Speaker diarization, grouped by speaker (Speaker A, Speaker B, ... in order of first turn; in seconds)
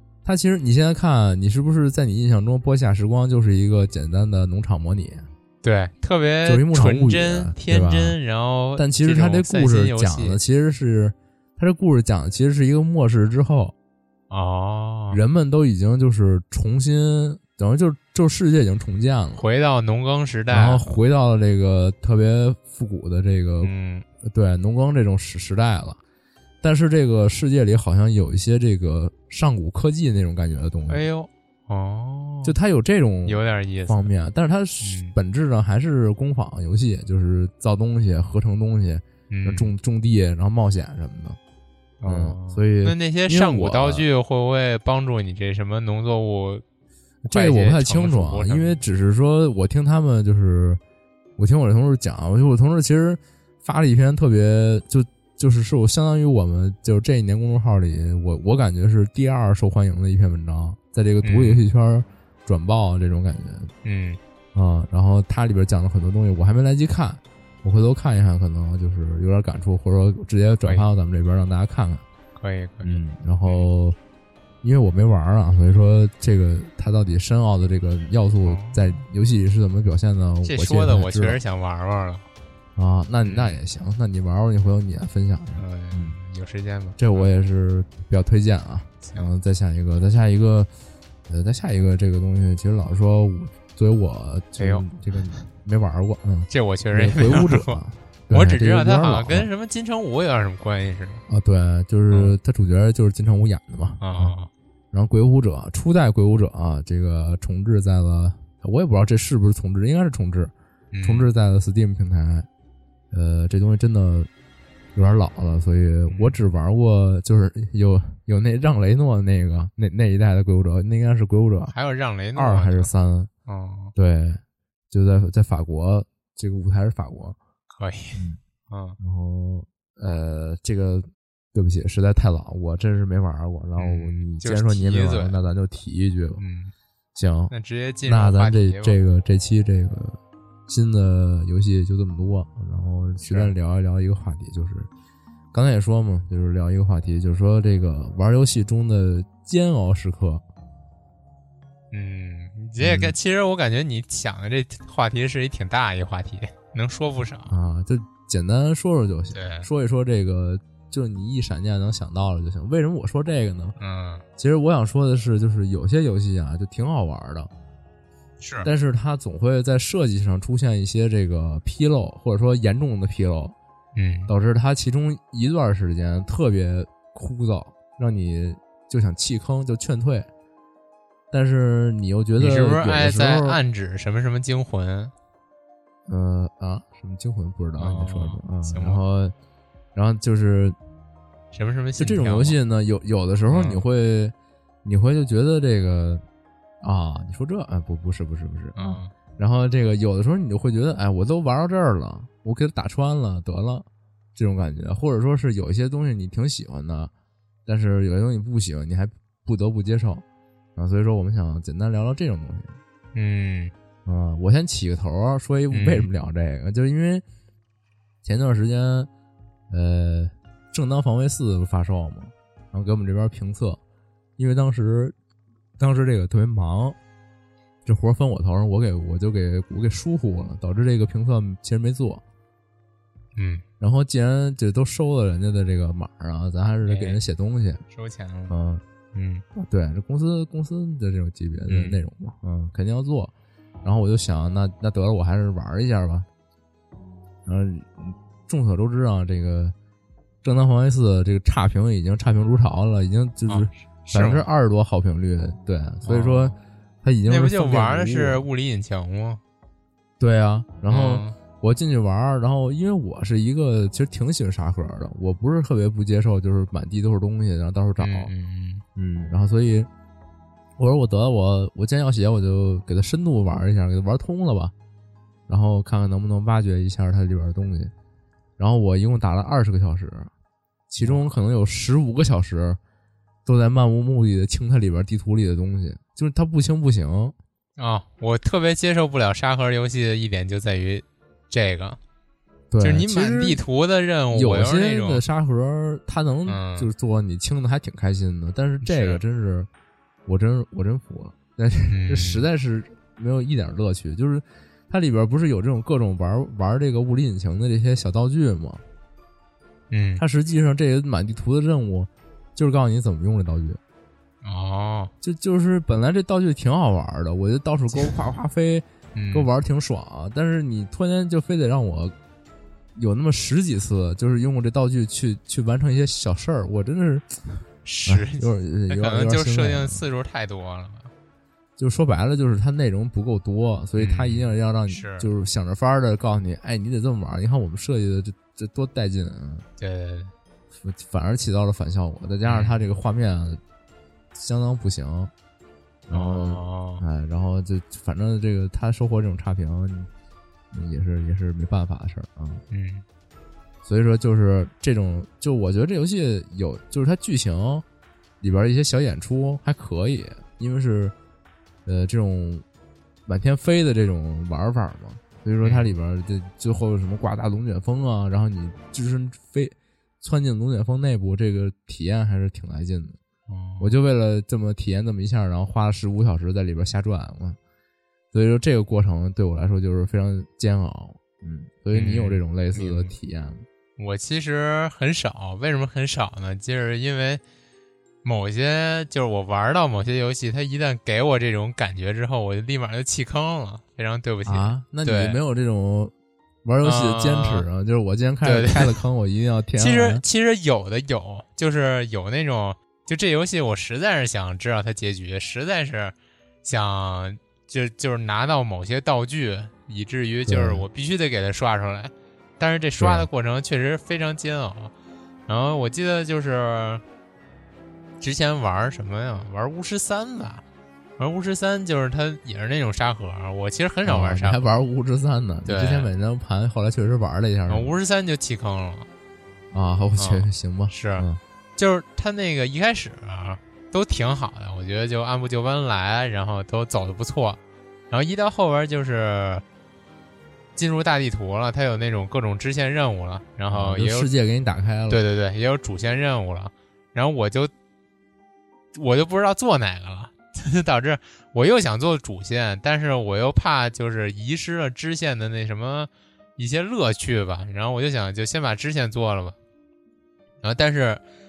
Speaker A: 0.2-5.2, 6.4-8.2, 8.8-13.7, 15.1-19.4, 20.5-23.7, 24.2-26.0, 26.6-31.0, 32.4-41.4, 42.0-44.0, 47.2-50.8, 51.4-63.7, 64.5-72.0, 72.8-74.0, 74.6-81.4, 82.8-86.2, 87.0-90.7, 91.3-99.5, 101.3-104.3, 104.9-110.5, 111.0-112.5, 113.1-114.3, 114.9-121.7, 122.3-123.3, 123.9-127.4, 129.0-136.4, 137.1-137.5, 138.1-144.9, 145.5-150.4, 152.8-153.2, 157.5-163.8, 164.4-167.5, 168.6-173.5, 174.3-180.3, 181.3-183.6, 186.1-189.3, 189.9-190.8, 192.0-196.2, 196.8-207.1, 207.7-210.2, 210.8-212.8, 214.1-217.2, 218.2-219.1, 219.7-223.8, 224.4-225.1, 225.8-227.0, 227.8-232.2, 233.8-237.8, 238.5-238.8, 239.5-243.3, 243.8-246.3, 247.4-249.7, 250.4-258.4, 260.2-268.3, 268.9-269.9, 270.8-274.7, 275.5-277.9, 278.6-280.3, 280.9-282.8, 283.4-287.3, 292.7-293.6, 294.3-299.7, 300.2-308.8, 310.2-313.8, 315.2-322.1, 322.9-330.0, 331.8-339.6, 340.8-343.6, 344.3-345.3, 346.1-350.1, 350.7-352.6, 353.8-357.8, 358.4-361.1, 361.9-362.6, 363.2-373.2, 373.8-377.6, 378.3-383.6, 394.4-396.1, 396.6-400.2, 410.5-410.8, 413.0-413.3, 424.0-427.9, 429.7-431.4, 443.7-445.2
Speaker B: 5.6-10.4, 14.3-15.2, 19.4-20.9, 23.6-24.0, 30.9-32.5, 33.2-34.0, 34.8-35.1, 39.3-39.7, 42.0-46.6, 47.3-48.8, 61.2-61.6, 63.8-64.2, 72.3-73.7, 78.4-79.0, 80.4-82.2, 83.2-83.6, 85.6-87.3, 94.6-94.9, 96.5-97.8, 98.3-101.2, 102.1-102.4, 104.0-104.5, 110.9-111.3, 116.1-116.4, 121.7-122.9, 123.5-123.9, 127.7-129.0, 133.8-135.4, 136.4-136.7, 137.5-139.0, 143.2-143.5, 151.9-157.5, 159.3-159.7, 163.8-164.2, 168.4-168.7, 173.9-174.3, 182.4-185.1, 187.8-189.0, 191.5-192.6, 193.5-193.8, 198.7-199.1, 213.1-213.7, 215.7-216.1, 233.3-233.6, 236.8-237.2, 237.9-238.5, 239.1-239.4, 241.7-242.0, 253.5-254.5, 256.0-256.5, 257.3-259.4, 260.9-261.3, 268.0-268.8, 287.8-292.0, 292.8-295.2, 296.5-296.9, 298.8-299.2, 301.9-302.5, 309.9-310.2, 314.4-315.1, 319.1-319.5, 327.8-331.1, 334.0-335.3, 339.8-340.3, 342.4-342.8, 346.1-347.0, 352.7-353.0, 365.6-365.9, 373.5-373.9, 381.9-383.1, 384.0-387.4, 388.2-395.4, 396.8-397.6, 398.4-399.0, 399.8-414.9, 415.5-417.0, 418.2-420.6, 421.2-424.6, 425.6-426.1, 427.7-429.1, 430.2-431.2, 431.8-439.6, 440.8-444.3, 445.1-447.7, 448.9-459.6, 460.6-461.2